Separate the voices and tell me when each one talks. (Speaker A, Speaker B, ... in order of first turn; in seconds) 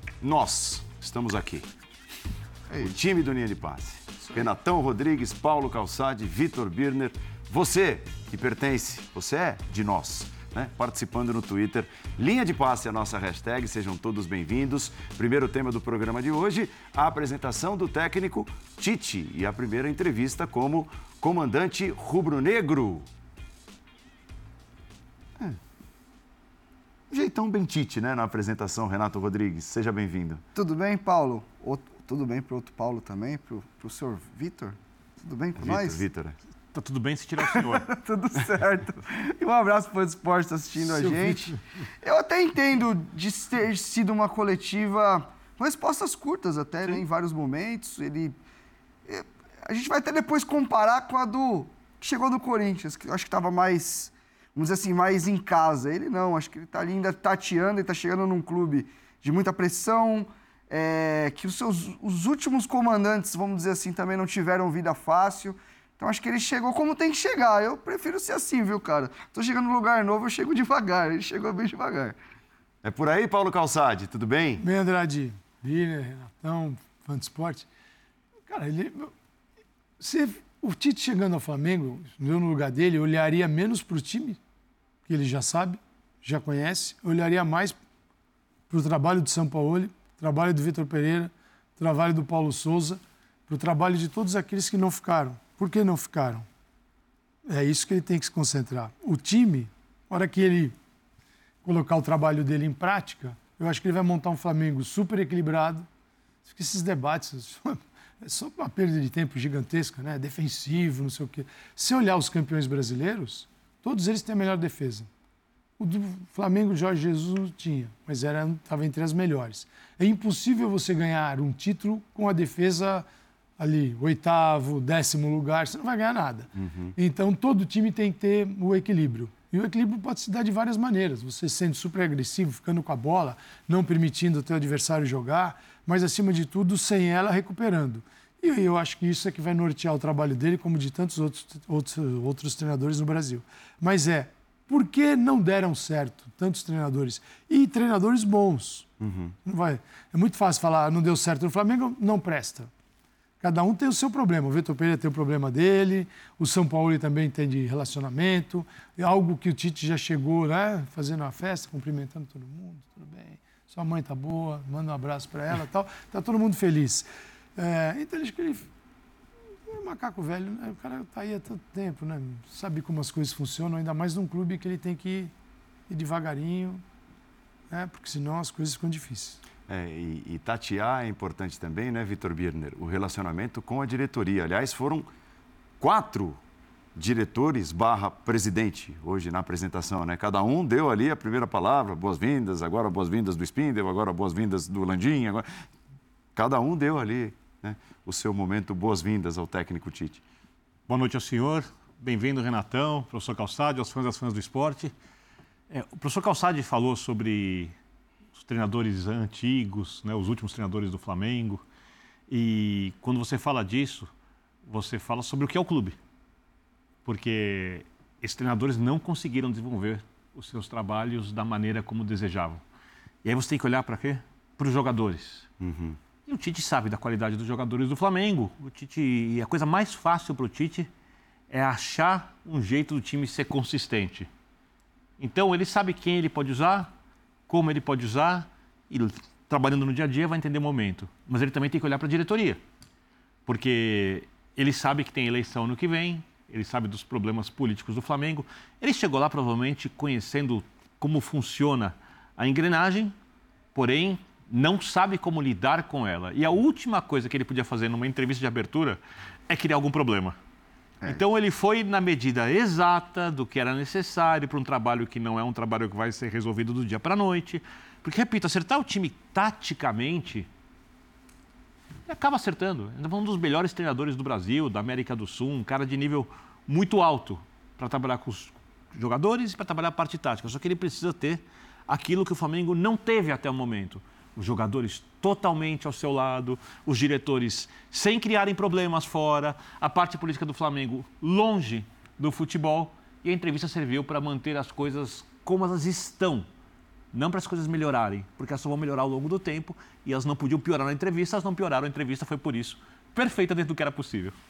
Speaker A: 0.2-1.7, 2.7-23.1, 27.1-30.4, 35.6-36.4, 72.8-74.6, 126.6-126.9, 149.0-149.3, 179.7-185.1, 185.8-186.4, 186.9-195.4, 196.3-200.2, 225.6-226.0
Speaker B: 30.6-36.0, 37.5-48.4, 49.0-72.2
Speaker C: 36.7-37.9, 200.9-204.9, 205.7-207.7, 208.3-211.6, 212.3-214.1, 214.7-215.9, 217.1-222.6, 223.2-225.5, 226.2-230.9, 231.5-234.3, 235.2-236.9, 237.5-242.6, 243.5-253.1, 253.8-260.4, 261.1-270.5, 272.1-296.5, 297.1-304.3
Speaker D: 74.6-77.7, 78.5-79.1, 80.0-84.4, 85.1-87.8, 88.7-96.4, 97.5-100.8, 101.6-105.9, 106.4-115.1, 115.8-123.0, 123.6-148.9, 149.4-152.7, 153.4-167.1, 167.6-168.7, 169.7-175.3, 175.9-176.8, 177.7-179.4